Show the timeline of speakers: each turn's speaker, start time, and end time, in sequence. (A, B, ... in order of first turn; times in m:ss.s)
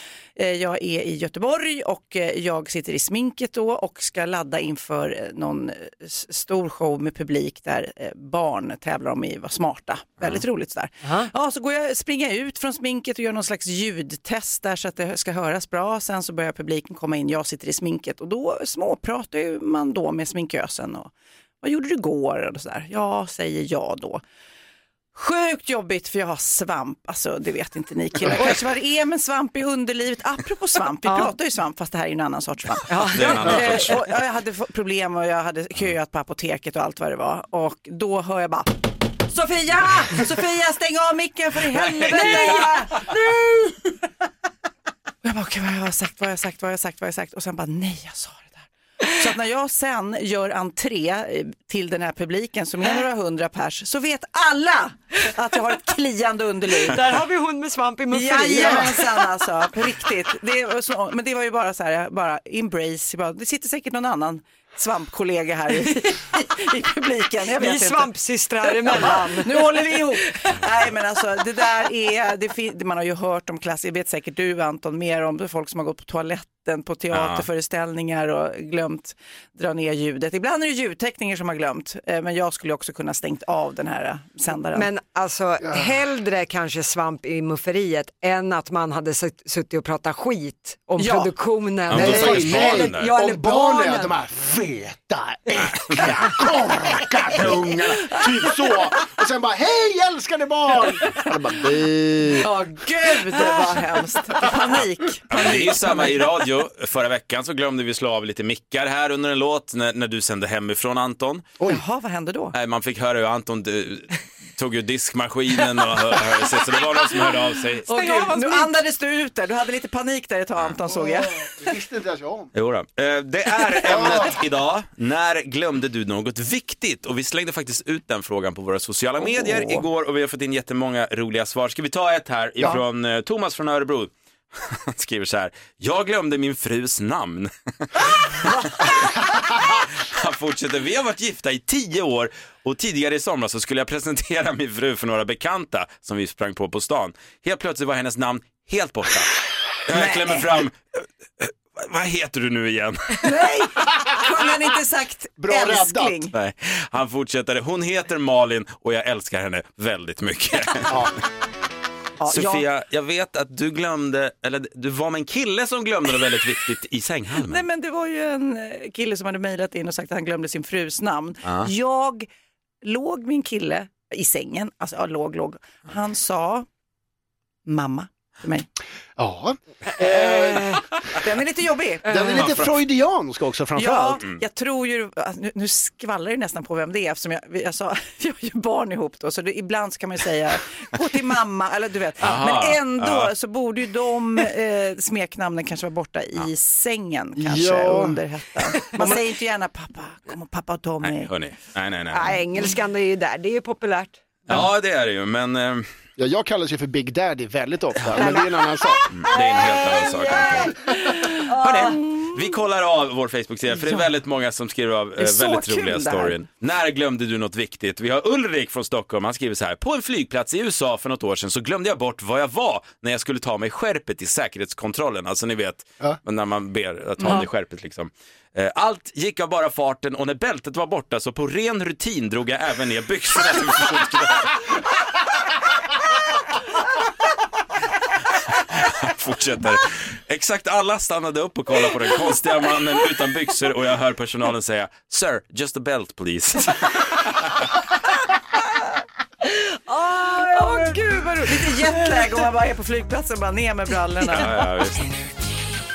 0:00.4-0:21.1 A
0:11.0-0:11.3 B
0:21.6-0:24.2 A
0:25.1-0:38.8 A
0:31.0-0:31.3 B
0:32.9-0:34.0 B
0:33.1-0:34.0 C
0:39.3-0:43.1 A
0:41.8-0:42.6 C
0:42.0-0:43.8 B
0:45.2-0:48.6 A
0:49.1-0:57.1 A
0:56.8-0:59.4 B
0:58.1-1:08.1 A
1:07.6-1:10.2 B
1:08.6-1:24.9 A
1:17.1-1:17.4 C
1:24.7-1:34.1 B
1:31.0-1:31.3 A
1:31.9-1:33.1 C
1:31.9-1:42.5 D
1:42.4-1:46.4 A
1:45.3-1:51.5 C
1:51.6-1:52.5 A
1:52.5-1:57.9 C
1:57.9-2:01.5 A
1:57.9-1:58.8 B
2:00.9-2:02.5 D
2:02.5-2:29.3 C
2:03.8-2:04.4 D
2:29.8-2:33.2 C
2:29.9-2:30.4 A
2:33.2-2:36.3 A
2:35.4-2:36.3 D
2:36.3-2:41.1 C
2:40.9-2:41.1 D
2:42.2-2:42.6 A
2:42.3-2:47.6 C
2:47.4-2:52.3 A
2:52.8-2:56.6 A
2:57.6-2:58.7 A
2:59.2-3:00.8 D
3:01.1-3:02.6 A
3:02.0-3:04.2 D
3:02.4-3:02.7 C
3:03.7-3:21.3 A
3:12.2-3:13.3 C
3:17.4-3:18.2 D
3:21.0-3:22.3 C
3:22.1-3:24.2 B
3:24.5-3:25.9 C
3:26.2-3:29.1 D
3:27.9-3:28.2 C
3:28.2-3:32.0 B
3:29.1-3:30.7 C
3:31.1-3:32.3 A
3:31.6-3:54.6 C
3:33.8-3:34.0 A
3:35.2-3:36.4 A
3:58.5-4:07.6 C
4:09.6-4:12.5 B
4:10.3-4:14.7 A
4:14.3-4:15.1 C